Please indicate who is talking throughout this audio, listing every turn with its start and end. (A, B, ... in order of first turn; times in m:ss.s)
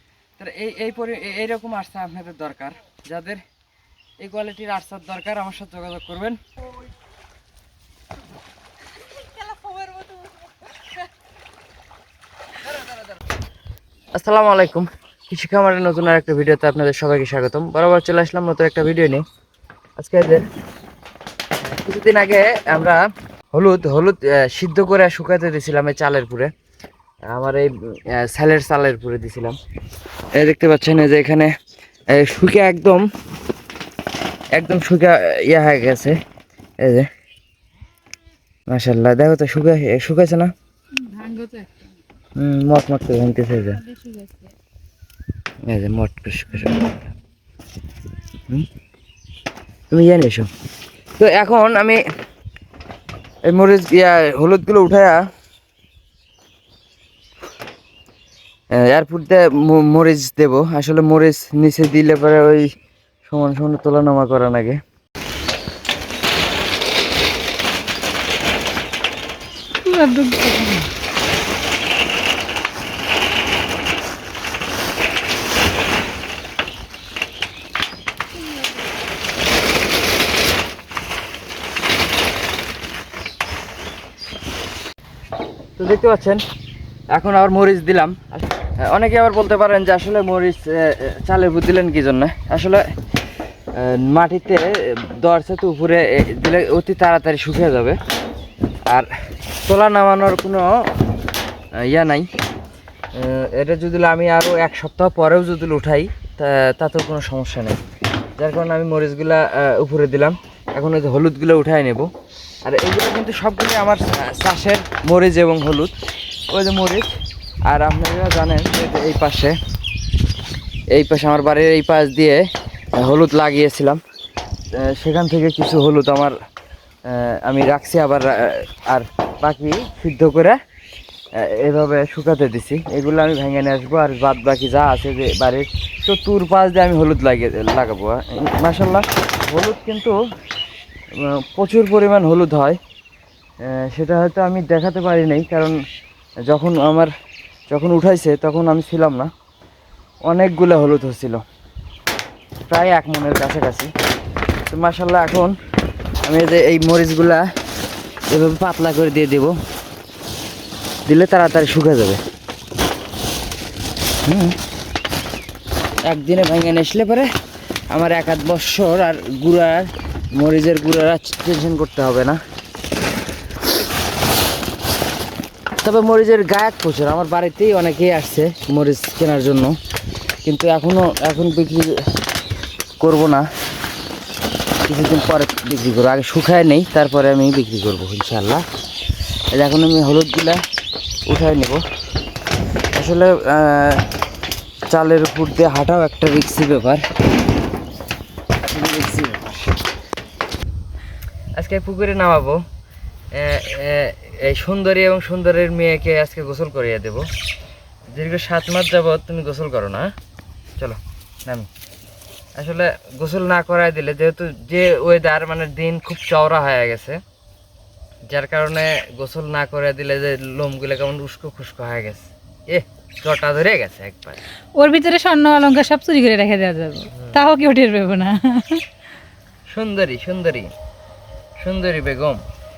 0:00.4-0:03.4 A
0:04.2-0:06.4 A
0:14.1-0:19.2 A
0:20.0-0:20.4 A
0:21.6-0:23.0 A
0:23.5-0:26.5 A
0:27.3-0:29.6 A
0:30.4-0:31.5 A
0:32.1-0:33.0 A
0:34.5-0:36.2 A
0:36.8-0:37.1 A
0:38.7-0:40.5 A
0:41.0-0:41.9 B
0:42.4-0:43.8 A
0:43.8-0:44.5 B
0:45.6-0:46.9 A
0:49.9-0:50.5 A
0:51.2-0:52.0 A
0:53.4-0:55.2 A
0:58.7-1:02.7 A
1:03.3-1:04.8 A
1:09.8-1:10.9 B
1:25.8-1:26.4 A
1:27.1-1:32.8 A
1:33.7-1:38.0 A
1:39.6-1:40.8 A
1:41.8-1:42.3 A
1:43.1-1:47.8 A
1:48.4-1:52.1 A
1:52.6-1:55.9 A
1:56.5-1:57.1 A
1:57.7-1:59.6 A
2:00.9-2:04.0 A
2:04.7-2:06.3 A
2:07.0-2:10.6 A
2:11.4-2:20.2 A
2:21.2-2:22.8 A
2:23.6-2:25.8 A
2:26.4-2:27.1 A
2:27.7-2:29.3 A
2:30.2-2:31.4 A
2:32.7-2:33.9 A
2:34.7-2:35.5 A
2:36.2-2:37.4 A
2:38.3-2:39.5 A
2:41.0-2:42.2 A
2:44.2-2:44.6 A
2:46.0-2:47.3 A
2:47.9-2:52.4 A
2:55.8-2:59.8 A
3:00.4-3:02.0 A
3:03.0-3:03.4 A
3:04.8-3:08.6 A
3:09.5-3:10.6 A
3:11.3-3:11.8 A
3:12.9-3:14.0 A
3:14.9-3:17.0 A
3:18.6-3:19.7 A
3:21.6-3:22.6 A
3:23.3-3:27.3 A
3:28.1-3:30.1 A
3:30.8-3:31.7 A
3:32.6-3:37.2 A
3:38.3-3:44.4 A
3:44.8-3:48.8 B
3:49.7-3:50.7 A
3:51.6-3:52.4 A